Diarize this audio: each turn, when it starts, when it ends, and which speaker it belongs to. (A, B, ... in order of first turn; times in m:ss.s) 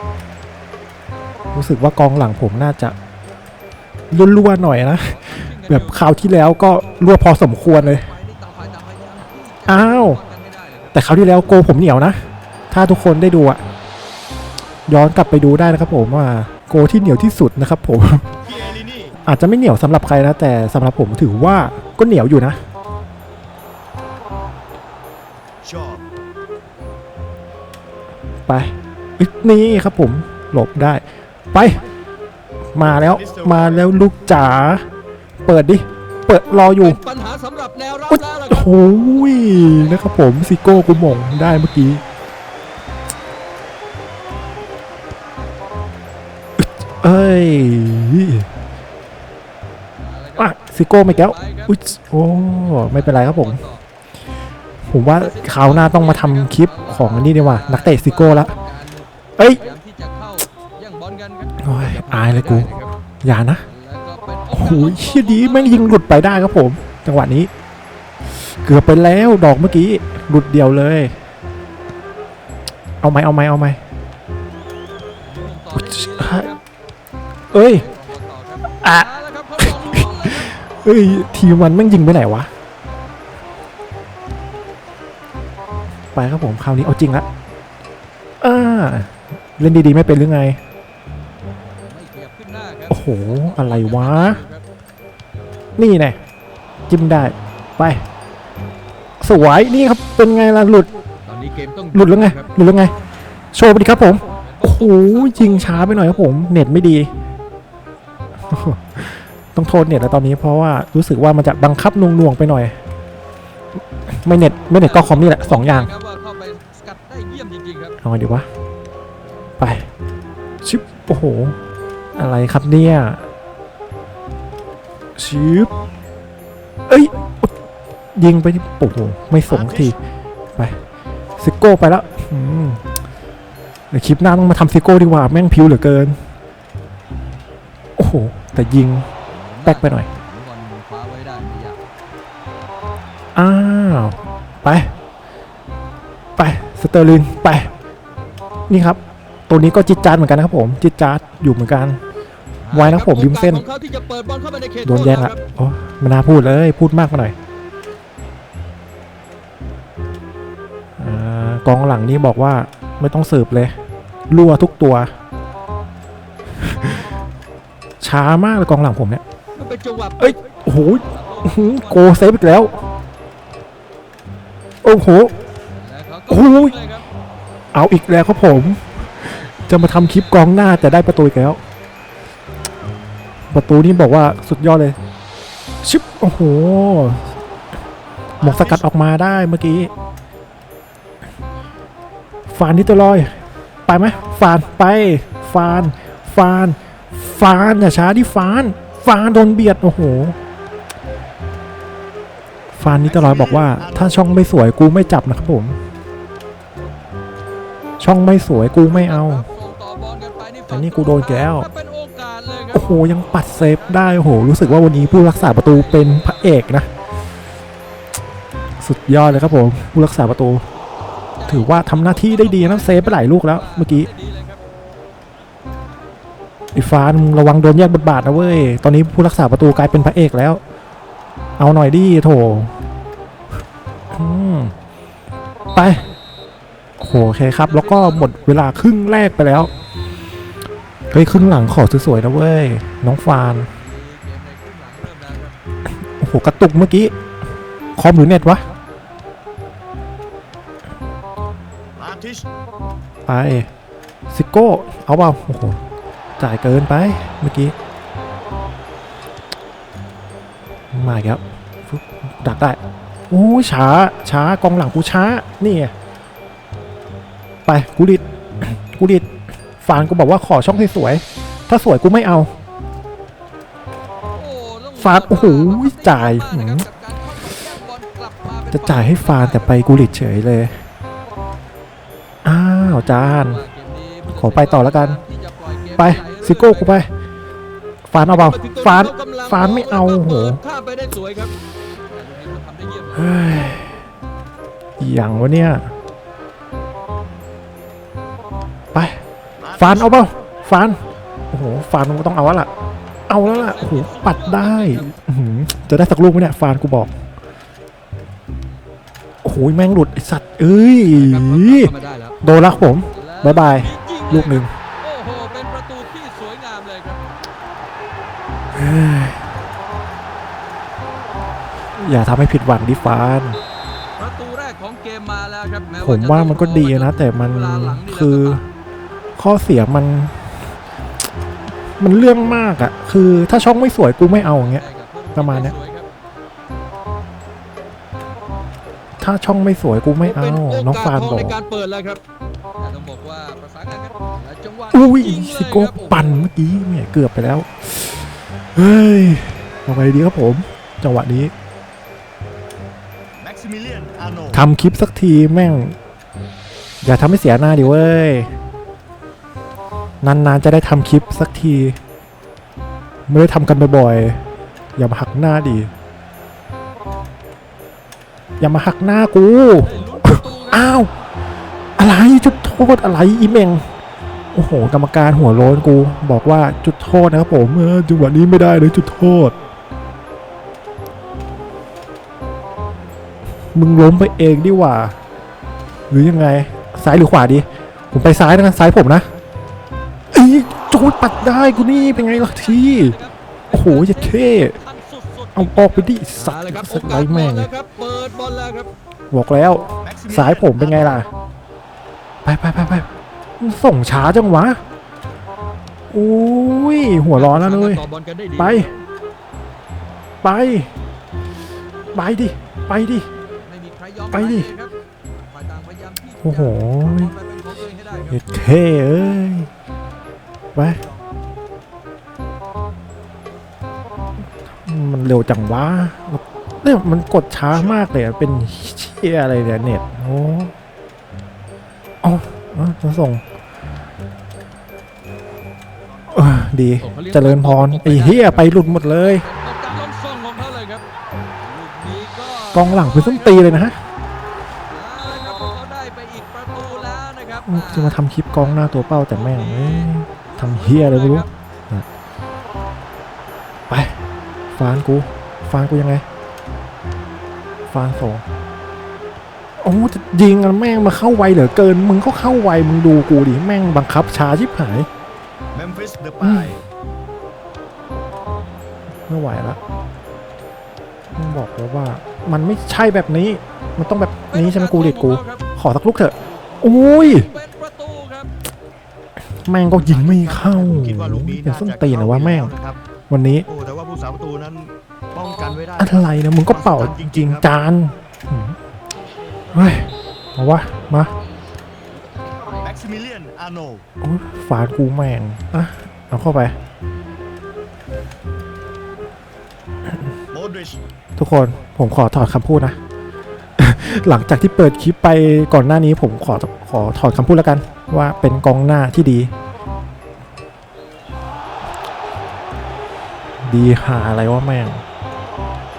0:01.5-0:03.0 A
0:04.1-0:08.1 A
0:05.0-0:06.3 B
0:07.6-0:11.0 B
0:09.7-0:10.2 A
0:10.9-0:12.2 A
0:12.7-0:13.6 A
0:14.9-0:18.3 A
0:18.5-0:19.2 C
0:19.2-0:22.6 A
0:25.6-0:26.0 C
0:28.5-0:31.8 A
0:32.7-0:34.8 A
0:33.1-0:33.9 C
0:35.4-0:37.0 A
0:36.8-0:41.9 B
0:38.1-0:42.0 A
0:46.6-0:48.5 A
0:50.0-0:51.7 B
0:50.4-0:53.6 A
0:52.5-0:53.8 B
0:54.9-0:58.5 A
0:55.2-1:02.9 B
0:59.4-0:59.6 A
1:01.6-1:02.7 A
1:03.2-1:03.6 A
1:03.7-1:05.9 B
1:04.5-1:07.5 A
1:08.4-1:11.1 A
1:13.0-1:13.8 A
1:15.2-1:16.6 B
1:15.7-1:16.5 A
1:17.5-1:20.5 B
1:17.5-1:17.9 A
1:18.8-1:22.5 A
1:26.1-1:27.3 A
1:28.4-1:30.6 A
1:31.8-1:34.6 B
1:32.9-1:34.4 A
1:35.8-1:36.2 A
1:36.9-1:38.0 A
1:39.2-1:40.9 A
1:41.2-1:42.6 B
1:41.9-1:42.9 A
1:43.5-1:47.1 A
1:44.3-1:46.3 B
1:48.5-1:52.7 A
1:54.1-1:55.9 A
1:54.8-1:58.0 B
1:58.0-1:58.4 A
1:59.6-1:59.9 A
2:00.6-2:01.6 A
2:02.2-2:03.2 A
2:05.2-2:05.7 A
2:06.9-2:07.5 A
2:08.2-2:10.0 A
2:09.5-2:09.9 C
2:10.6-2:10.8 A
2:11.4-2:12.8 A
2:13.9-2:16.2 A
2:18.0-2:19.1 A
2:19.5-2:21.8 B
2:19.6-2:20.1 A
2:23.3-2:24.9 A
2:26.4-2:27.7 A
2:28.7-2:32.0 A
2:32.6-2:35.4 B
2:32.7-2:33.6 A
2:34.8-2:37.3 A
2:41.0-2:43.7 A
2:44.3-2:45.1 A
2:46.6-2:47.0 A
2:48.0-2:49.2 A
2:49.6-2:52.3 B
2:50.2-2:52.8 A
2:54.8-2:55.3 A
2:55.8-2:57.1 B
2:56.3-2:56.8 A
2:57.7-3:01.6 A
2:59.3-3:00.9 B
3:03.5-3:05.0 A
3:05.8-3:07.3 A
3:08.4-3:08.8 C
3:08.4-3:09.9 A
3:12.5-3:13.3 A
3:13.9-3:20.4 A
3:22.8-3:25.8 A
3:23.1-3:24.1 C
3:28.0-3:29.5 A
3:28.8-3:36.7 B
3:30.7-3:31.7 A
3:32.7-3:36.9 A
3:38.8-3:40.7 A
3:39.3-3:39.8 B
3:40.7-3:44.6 B
3:41.4-3:44.1 A
3:46.8-3:50.6 A
3:51.6-3:52.7 A
3:54.1-3:54.8 A
3:55.7-3:56.1 A
3:57.0-3:59.7 A
3:57.4-3:58.7 B
4:01.1-4:03.7 A
4:03.7-4:05.6 B
4:06.2-4:07.1 A
4:08.0-4:08.6 A
4:12.0-4:12.4 C
4:13.3-4:13.7 A
4:14.3-4:15.8 A
4:16.4-4:17.7 A
4:20.9-4:22.8 A
4:23.3-4:25.9 A
4:27.7-4:32.5 A
4:34.3-4:39.8 B
4:35.0-4:36.9 A
4:38.7-4:40.8 A
4:42.4-4:43.6 A
4:43.0-4:47.0 B
4:44.3-4:45.2 A
4:46.0-4:47.1 A
4:48.1-4:50.6 A
4:48.2-4:51.6 B
4:52.1-4:53.4 B
4:53.1-4:54.0 A
4:55.0-4:55.9 A
4:58.9-4:59.2 A
4:59.6-5:00.2 C
4:59.8-5:01.0 A
5:01.5-5:02.7 A
5:03.3-5:07.1 A
5:03.4-5:05.1 B
5:09.4-5:14.7 A
5:11.1-5:12.4 B
5:13.1-5:17.2 B
5:18.8-5:19.4 A
5:22.0-5:23.6 A
5:24.2-5:28.6 B
5:26.0-5:28.6 A
5:29.4-5:30.6 A
5:32.0-5:34.8 A
5:34.4-5:36.1 B
5:35.4-5:35.8 A
5:39.2-5:41.6 A
5:40.2-5:42.2 B
5:42.8-5:46.5 B
5:44.9-5:51.5 A
5:53.4-5:54.7 C
5:54.5-5:55.9 A
5:57.0-5:58.5 A
6:00.2-6:02.0 A
6:03.3-6:04.4 A
6:05.0-6:05.9 A
6:08.6-6:11.1 A
6:09.8-6:10.9 B
6:12.0-6:13.8 A
6:14.5-6:19.6 A
6:23.8-6:25.1 A
6:26.1-6:29.3 A
6:30.3-6:33.2 A
6:30.8-6:38.9 B
6:33.7-6:34.8 A
6:35.6-6:37.7 A
6:39.3-6:41.3 A
6:40.0-6:41.2 C
6:42.4-6:43.1 A
6:43.6-6:44.8 A
6:46.1-6:48.0 A
6:47.3-6:48.9 B
6:48.6-6:48.9 A
6:50.4-6:50.9 A
6:52.1-6:53.3 A
6:53.5-6:54.9 B
6:54.3-6:54.7 A
6:55.5-6:58.4 B
6:56.4-6:57.3 A
6:58.3-6:59.7 A
7:00.8-7:01.0 A
7:04.8-7:10.7 A
7:12.2-7:13.4 A
7:16.3-7:19.4 A
7:17.0-7:21.0 B
7:21.6-7:23.7 B
7:22.7-7:24.0 A
7:24.9-7:31.5 B
7:27.7-7:32.1 A
7:33.9-7:34.2 A
7:34.7-7:36.2 A
7:37.9-7:38.4 A
7:39.8-7:45.1 A
7:45.7-7:46.8 C
7:46.4-7:46.8 A
7:49.3-7:49.8 A
7:51.3-7:57.5 A
7:54.5-7:55.6 B
7:57.2-7:58.5 B
7:59.7-8:02.8 A
8:00.0-8:03.0 C
8:03.3-8:03.7 A
8:03.7-8:06.2 C
8:06.0-8:08.8 A
8:06.7-8:07.7 C
8:09.7-8:11.3 A
8:12.8-8:14.0 C
8:14.2-8:16.8 A
8:20.5-8:21.0 C
8:21.4-8:23.0 A
8:23.8-8:29.5 A
8:33.6-8:35.0 A